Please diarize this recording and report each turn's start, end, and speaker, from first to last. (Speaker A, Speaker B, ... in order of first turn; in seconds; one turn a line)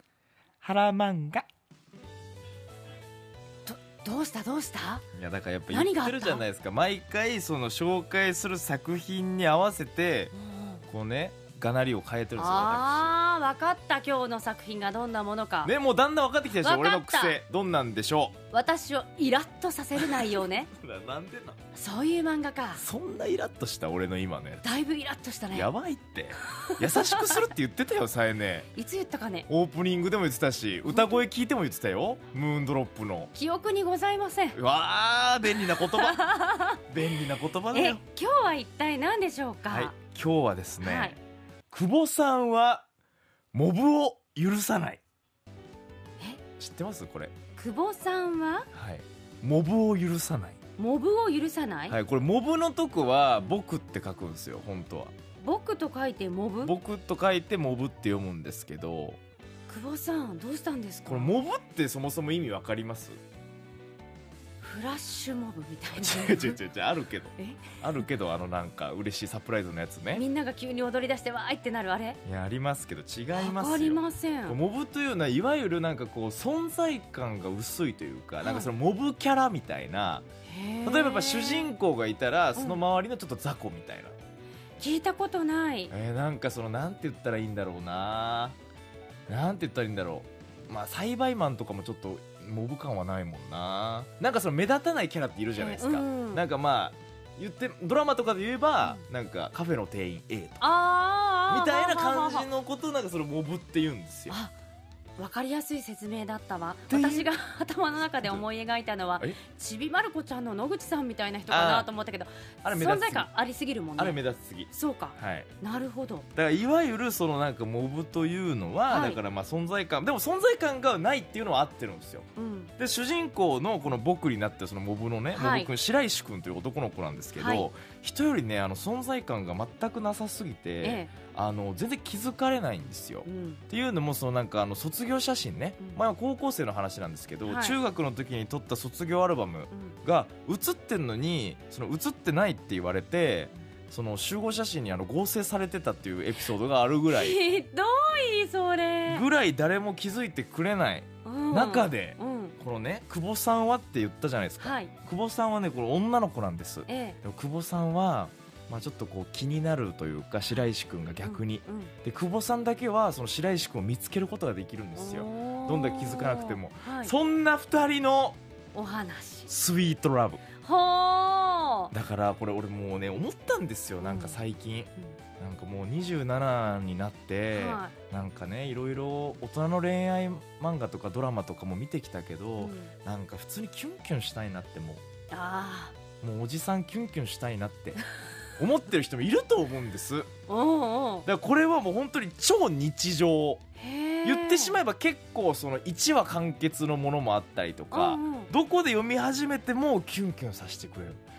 Speaker A: 0.6-1.4
Speaker B: 3.7-5.0
Speaker A: 5.1-10.3
Speaker B: 5.7-6.4
Speaker B: 10.3-10.8
Speaker A: 10.9-13.1
Speaker B: 12.4-15.7
Speaker A: 15.6-18.4
Speaker B: 16.6-17.4
Speaker B: 18.5-20.7
Speaker A: 20.0-21.6
Speaker B: 21.8-22.8
Speaker A: 22.8-24.6
Speaker B: 24.6-25.7
Speaker A: 25.5-28.7
Speaker B: 26.6-27.4
Speaker B: 28.7-29.5
Speaker A: 29.5-33.3
Speaker B: 30.9-31.2
Speaker B: 33.3-34.6
Speaker A: 34.5-36.2
Speaker B: 35.7-36.8
Speaker A: 36.9-38.0
Speaker B: 37.7-39.9
Speaker A: 39.7-41.2
Speaker B: 40.8-41.2
Speaker A: 41.7-42.9
Speaker A: 43.5-45.0
Speaker A: 46.6-47.3
Speaker B: 47.6-48.7
Speaker A: 48.7-50.6
Speaker B: 50.8-52.0
Speaker A: 51.9-55.1
Speaker B: 55.4-56.7
Speaker A: 56.6-59.2
Speaker B: 59.7-61.4
Speaker A: 61.0-63.2
Speaker B: 64.6-66.6
Speaker A: 66.0-70.2
Speaker B: 67.4-67.8
Speaker B: 70.1-72.2
Speaker A: 72.2-80.3
Speaker B: 73.4-74.6
Speaker B: 78.4-78.7
Speaker B: 80.5-81.8
Speaker A: 80.8-84.2
Speaker B: 84.8-85.9
Speaker A: 85.9-88.6
Speaker A: 89.3-100.7
Speaker B: 95.6-96.4
Speaker B: 100.6-102.5
Speaker A: 101.5-104.4
Speaker B: 105.2-114.2
Speaker A: 106.9-107.3
Speaker A: 111.5-111.9
Speaker A: 112.6-113.3
Speaker A: 114.0-115.5
Speaker B: 114.7-116.3
Speaker A: 116.3-147.4
Speaker B: 118.9-119.2
Speaker B: 122.4-122.7
Speaker B: 125.3-125.7
Speaker B: 127.4-127.7
Speaker B: 130.8-131.1
Speaker B: 133.2-133.6
Speaker B: 137.4-137.8
Speaker B: 147.1-149.3
Speaker A: 149.1-168.4
Speaker B: 151.2-152.6
Speaker B: 154.6-154.9
Speaker B: 156.9-157.2
Speaker B: 161.2-161.9
Speaker B: 165.0-167.1
Speaker B: 168.7-169.5
Speaker A: 169.5-170.4
Speaker B: 170.6-171.9
Speaker A: 171.9-185.0
Speaker B: 174.0-174.4
Speaker B: 177.5-177.9
Speaker B: 182.6-182.9
Speaker B: 185.3-186.0
Speaker A: 186.2-188.0
Speaker A: 188.6-190.3
Speaker B: 190.5-191.3
Speaker A: 191.2-193.6
Speaker B: 193.8-194.8
Speaker A: 194.2-201.2
Speaker B: 197.9-198.5